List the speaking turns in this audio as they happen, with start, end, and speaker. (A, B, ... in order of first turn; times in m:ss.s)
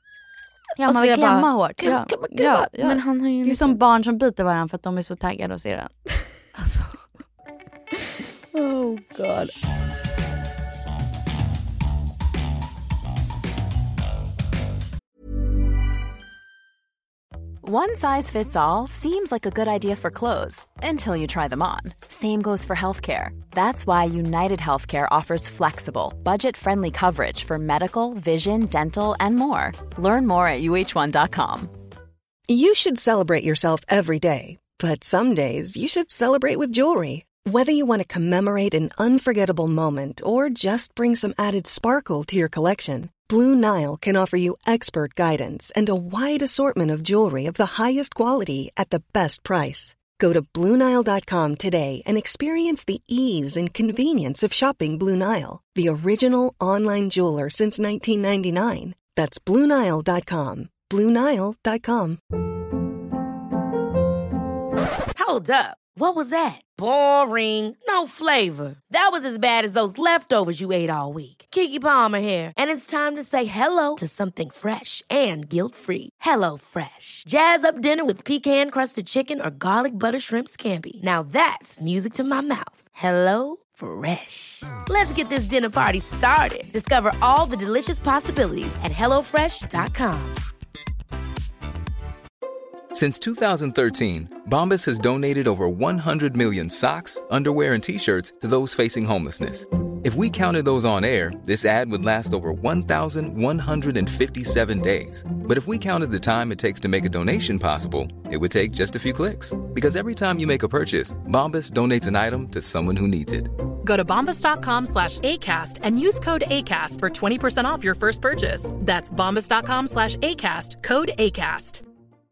0:00.8-0:05.9 A
0:00.8-0:03.8 B
0:06.5-0:07.0 A
0:08.0-0:09.5 B
0:17.6-0:31.7 C
0:32.5-1:02.2 D
1:05.1-1:30.5 E
1:32.9-1:53.5 F
1:53.8-2:01.8 G